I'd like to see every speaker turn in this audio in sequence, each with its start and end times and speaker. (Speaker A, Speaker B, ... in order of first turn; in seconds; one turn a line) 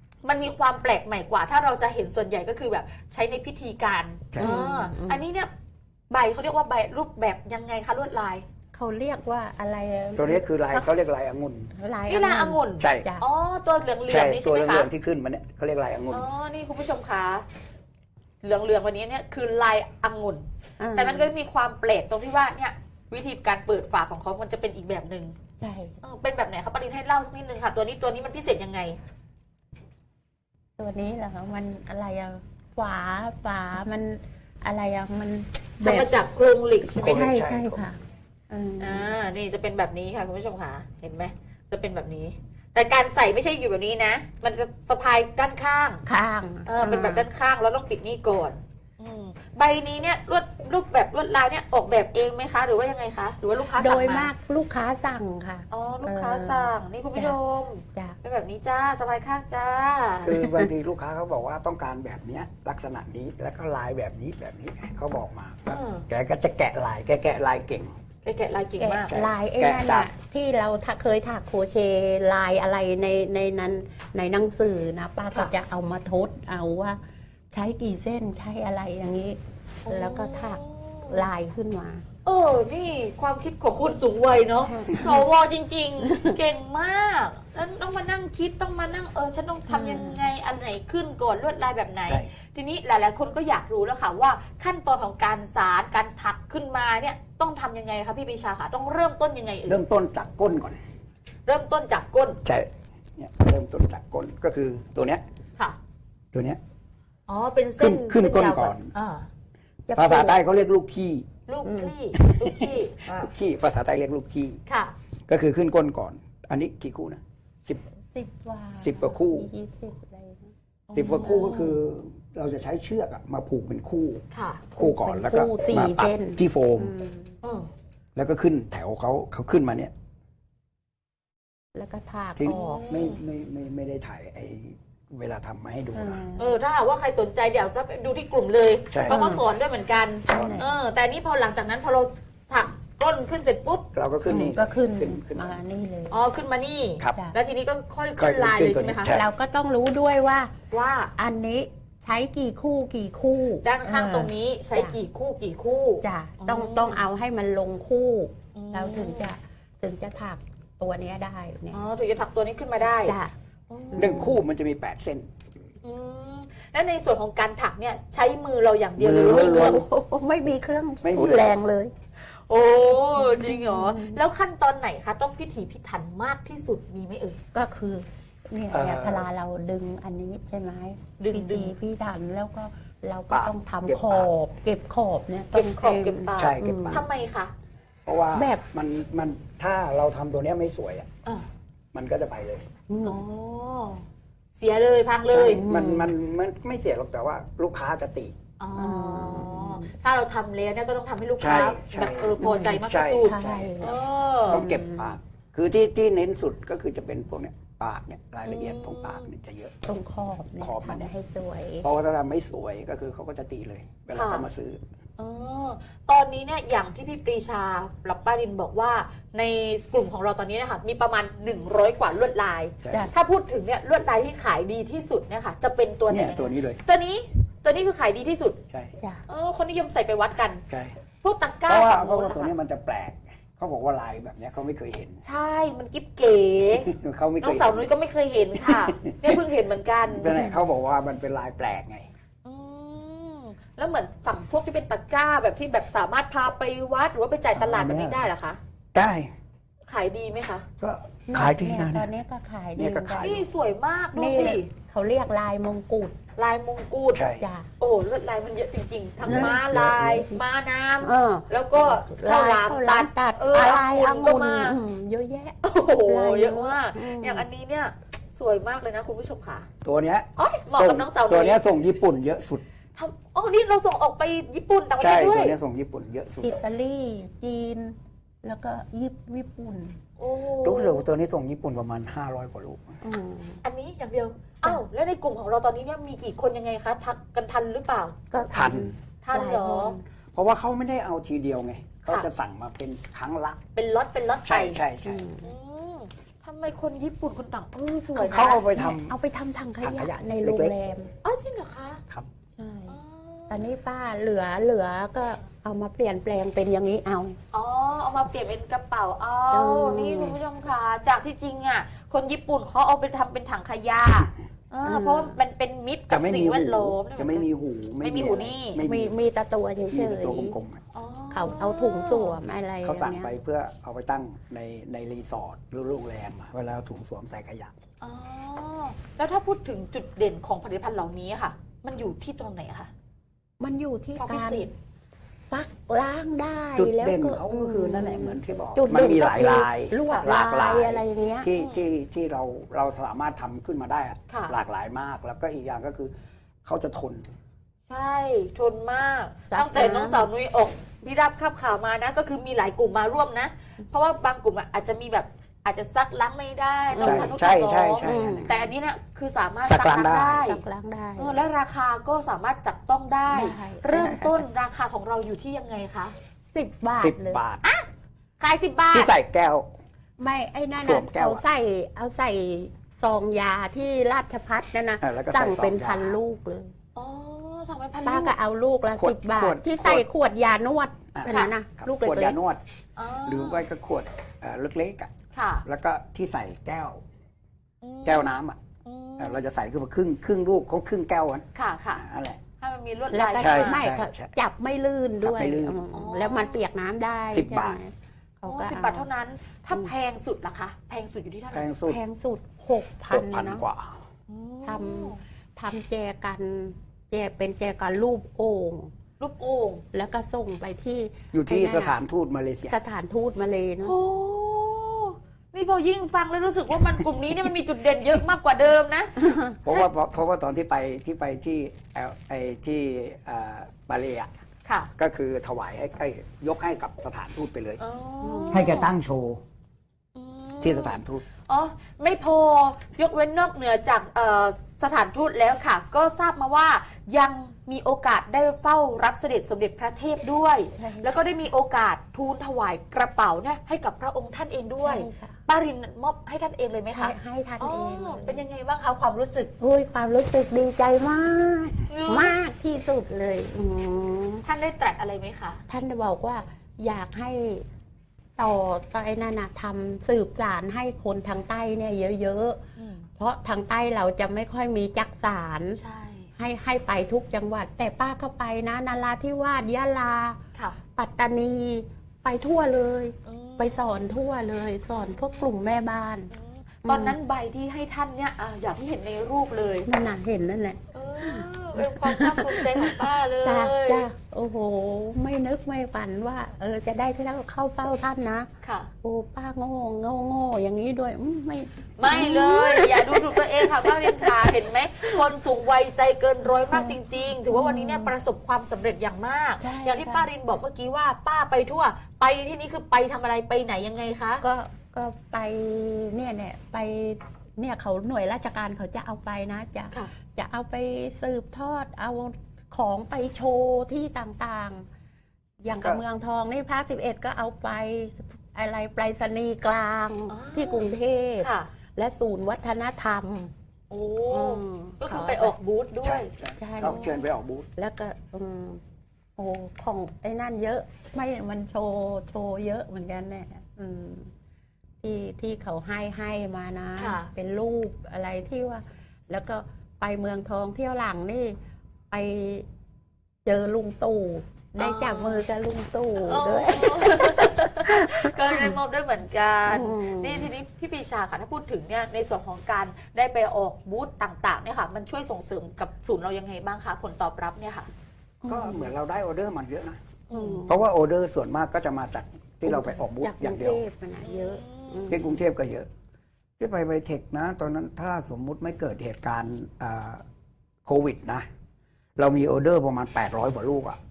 Speaker A: 0.2-5.5
Speaker B: 4.4-5.2
Speaker A: 6.1-8.5
Speaker B: 8.7-10.9
Speaker C: 10.2-11.7
Speaker B: 11.7-13.3
Speaker A: 12.1-14.9
Speaker C: 12.8-13.1
Speaker C: 14.1-16.3
Speaker A: 16.1-17.4
Speaker A: 18.4-25.4
Speaker B: 20.8-21.3
Speaker B: 25.6-26.0
Speaker A: 26.0-29.0
Speaker B: 30.8-36.1
Speaker A: 35.8-37.3
Speaker C: 37.0-37.8
Speaker B: 37.0-39.1
Speaker A: 38.8-46.0
Speaker B: 46.1-47.3
Speaker A: 46.7-54.3
Speaker B: 53.8-57.4
Speaker A: 55.7-60.4
Speaker C: 60.2-67.9
Speaker B: 60.4-60.7
Speaker A: 65.7-66.0
Speaker A: 68.2-69.1
Speaker B: 68.8-77.0
Speaker C: 69.1-70.1
Speaker B: 77.5-82.0
Speaker A: 79.9-81.2
Speaker A: 82.2-99.8
Speaker B: 84.7-85.2
Speaker B: 86.1-86.4
Speaker B: 89.7-90.2
Speaker C: 99.7-100.8
Speaker A: 101.5-102.4
Speaker C: 102.4-105.2
Speaker C: 106.3-106.6
Speaker A: 107.3-109.3
Speaker C: 107.8-108.9
Speaker B: 109.9-110.4
Speaker C: 110.0-111.3
Speaker A: 111.5-113.3
Speaker B: 111.7-112.0
Speaker C: 112.2-114.6
Speaker A: 114.7-114.9
Speaker C: 115.3-117.8
Speaker B: 118.1-120.5
Speaker C: 118.7-119.5
Speaker A: 120.9-121.8
Speaker C: 121.0-124.2
Speaker A: 124.3-124.7
Speaker C: 124.8-126.9
Speaker B: 124.8-127.4
Speaker A: 127.4-127.7
Speaker C: 128.2-129.9
Speaker B: 131.8-132.8
Speaker C: 132.4-136.2
Speaker A: 132.5-133.2
Speaker B: 135.9-136.6
Speaker A: 136.4-143.9
Speaker C: 138.9-139.3
Speaker B: 139.1-139.4
Speaker B: 140.3-140.7
Speaker C: 140.3-140.6
Speaker C: 143.9-145.6
Speaker B: 144.2-146.2
Speaker A: 146.1-149.1
Speaker C: 148.2-149.3
Speaker B: 149.1-150.5
Speaker A: 150.7-151.1
Speaker B: 151.2-155.0
Speaker A: 153.6-157.0
Speaker B: 156.0-161.8
Speaker A: 158.6-159.3
Speaker A: 161.7-163.2
Speaker B: 163.0-163.3
Speaker A: 163.7-164.3
Speaker B: 163.9-164.4
Speaker C: 163.9-165.3
Speaker A: 165.8-169.8
Speaker C: 169.0-169.8
Speaker B: 169.3-171.9
Speaker C: 171.0-171.5
Speaker A: 172.3-177.4
Speaker B: 173.2-174.2
Speaker B: 177.5-187.1
Speaker C: 178.7-179.3
Speaker A: 181.2-181.7
Speaker C: 183.3-184.3
Speaker A: 185.5-187.5
Speaker C: 186.3-187.1
Speaker C: 188.1-191.1
Speaker B: 188.3-188.6
Speaker C: 191.9-192.7
Speaker B: 192.9-193.2
Speaker A: 193.0-194.0
Speaker A: 194.6-195.6
Speaker C: 195.3-198.3
Speaker B: 195.5-196.1
Speaker A: 198.6-204.6
Speaker B: 198.8-199.9
Speaker C: 201.4-204.0
Speaker B: 202.4-203.9
Speaker C: 204.5-209.8
Speaker B: 204.5-205.2
Speaker A: 208.5-209.3
Speaker B: 209.9-211.9
Speaker C: 210.6-211.1
Speaker C: 211.8-214.8
Speaker A: 214.1-214.5
Speaker A: 215.2-228.6
Speaker C: 222.8-223.1
Speaker C: 226.1-226.8
Speaker A: 229.3-230.6
Speaker C: 230.7-230.9
Speaker A: 231.2-232.5
Speaker C: 231.7-235.2
Speaker A: 235.2-240.4
Speaker C: 236.9-237.9
Speaker C: 238.6-239.4
Speaker C: 240.1-242.1
Speaker B: 240.3-240.6
Speaker A: 242.4-248.6
Speaker C: 247.6-248.3
Speaker C: 248.9-249.3
Speaker A: 249.9-250.7
Speaker C: 250.8-252.1
Speaker B: 251.3-253.4
Speaker C: 252.8-253.5
Speaker A: 253.2-254.7
Speaker B: 254.1-256.2
Speaker A: 256.4-257.2
Speaker C: 257.1-257.4
Speaker B: 257.3-257.7
Speaker A: 257.8-264.8
Speaker C: 259.3-260.2
Speaker B: 259.3-259.6
Speaker B: 260.1-260.4
Speaker B: 261.0-267.5
Speaker A: 265.6-269.7
Speaker C: 269.8-272.6
Speaker A: 270.4-271.6
Speaker A: 273.0-275.6
Speaker C: 275.0-276.5
Speaker B: 276.4-280.0
Speaker A: 280.2-281.0
Speaker C: 280.6-282.9
Speaker B: 283.0-283.6
Speaker A: 283.6-288.2
Speaker B: 288.3-290.0
Speaker C: 288.5-289.0
Speaker A: 289.2-290.0
Speaker C: 290.3-293.6
Speaker A: 293.8-294.8
Speaker C: 294.5-295.2
Speaker B: 295.1-295.5
Speaker A: 295.4-298.6
Speaker B: 298.2-301.1
Speaker C: 298.2-299.1
Speaker C: 299.8-300.7
Speaker A: 301.2-302.0
Speaker B: 302.6-303.0
Speaker A: 302.9-303.6
Speaker B: 303.5-307.4
Speaker A: 307.5-317.5
Speaker B: 309.5-310.4
Speaker B: 314.8-315.4
Speaker C: 316.1-319.1
Speaker A: 318.0-318.8
Speaker B: 318.8-320.6
Speaker C: 319.9-320.8
Speaker A: 320.9-322.4
Speaker B: 321.3-323.3
Speaker C: 322.8-327.7
Speaker A: 328.0-332.9
Speaker B: 333.6-341.5
Speaker A: 334.2-334.7
Speaker C: 336.8-346.1
Speaker A: 341.6-341.8
Speaker A: 344.3-344.6
Speaker C: 346.6-347.2
Speaker A: 347.9-360.6
Speaker B: 349.5-350.3
Speaker B: 356.9-357.4
Speaker C: 357.0-358.5
Speaker B: 358.0-358.7
Speaker C: 359.6-360.5
Speaker B: 360.4-361.4
Speaker A: 361.2-366.1
Speaker B: 363.3-364.4
Speaker B: 366.5-367.4
Speaker C: 367.0-367.6
Speaker A: 368.4-369.1
Speaker C: 368.9-369.7
Speaker B: 370.2-376.7
Speaker C: 370.8-371.4
Speaker C: 375.0-376.2
Speaker A: 377.0-378.4
Speaker B: 378.1-382.4
Speaker C: 378.9-380.1
Speaker C: 381.1-382.6
Speaker A: 383.0-383.7
Speaker C: 383.3-385.1
Speaker A: 385.3-385.6
Speaker C: 385.6-387.0
Speaker A: 387.8-388.3
Speaker C: 388.1-388.6
Speaker A: 388.9-389.4
Speaker C: 389.2-392.4
Speaker A: 391.6-392.0
Speaker A: 392.6-393.9
Speaker B: 393.1-399.1
Speaker C: 393.4-394.3
Speaker C: 395.2-395.8
Speaker A: 395.9-396.6
Speaker C: 397.3-397.8
Speaker A: 398.5-401.7
Speaker C: 401.5-402.0
Speaker B: 401.9-403.6
Speaker C: 403.1-404.0
Speaker A: 404.3-405.2
Speaker B: 404.6-408.9
Speaker A: 409.2-409.8
Speaker B: 409.9-412.0
Speaker C: 411.3-412.8
Speaker B: 412.7-414.0
Speaker A: 413.8-419.9
Speaker B: 419.2-419.6
Speaker C: 419.6-424.3
Speaker A: 424.6-424.9
Speaker C: 425.0-427.8
Speaker A: 427.8-428.9
Speaker B: 428.2-428.9
Speaker C: 428.5-429.4
Speaker A: 430.1-449.5
Speaker C: 430.6-431.2
Speaker B: 440.8-441.1
Speaker B: 444.8-445.4
Speaker B: 446.9-448.4
Speaker B: 449.6-454.4
Speaker A: 451.9-452.4
Speaker A: 454.4-455.6
Speaker B: 455.7-457.7
Speaker B: 458.4-462.6
Speaker A: 462.8-463.1
Speaker B: 463.2-465.8
Speaker A: 465.8-466.3
Speaker B: 466.4-470.4
Speaker B: 471.0-476.3
Speaker A: 473.2-474.1
Speaker A: 476.3-479.9
Speaker B: 476.9-477.2
Speaker B: 479.9-488.5
Speaker A: 480.9-484.1
Speaker A: 488.6-488.9
Speaker B: 489.0-494.5
Speaker A: 492.0-504.4
Speaker B: 496.7-497.0
Speaker B: 497.5-498.1
Speaker B: 499.6-500.3
Speaker B: 504.4-514.9
Speaker B: 515.6-523.5
Speaker C: 515.8-516.0
Speaker A: 520.3-520.9
Speaker A: 521.4-521.7
Speaker A: 523.9-526.3
Speaker B: 524.3-525.6
Speaker C: 526.0-527.7
Speaker B: 526.6-527.0
Speaker A: 526.8-527.3
Speaker B: 527.8-528.8
Speaker B: 529.4-534.3
Speaker B: 535.0-541.6
Speaker A: 537.0-537.3
Speaker B: 542.1-542.7
Speaker B: 543.5-548.8
Speaker A: 544.8-545.4
Speaker A: 546.3-557.9
Speaker B: 549.7-550.5
Speaker B: 558.4-558.9
Speaker C: 558.5-560.0
Speaker A: 560.3-560.7
Speaker B: 560.3-560.8
Speaker C: 560.7-563.8
Speaker B: 562.6-565.4
Speaker A: 564.2-565.3
Speaker C: 565.1-565.9
Speaker C: 566.6-570.2
Speaker C: 570.9-571.5
Speaker C: 572.2-574.0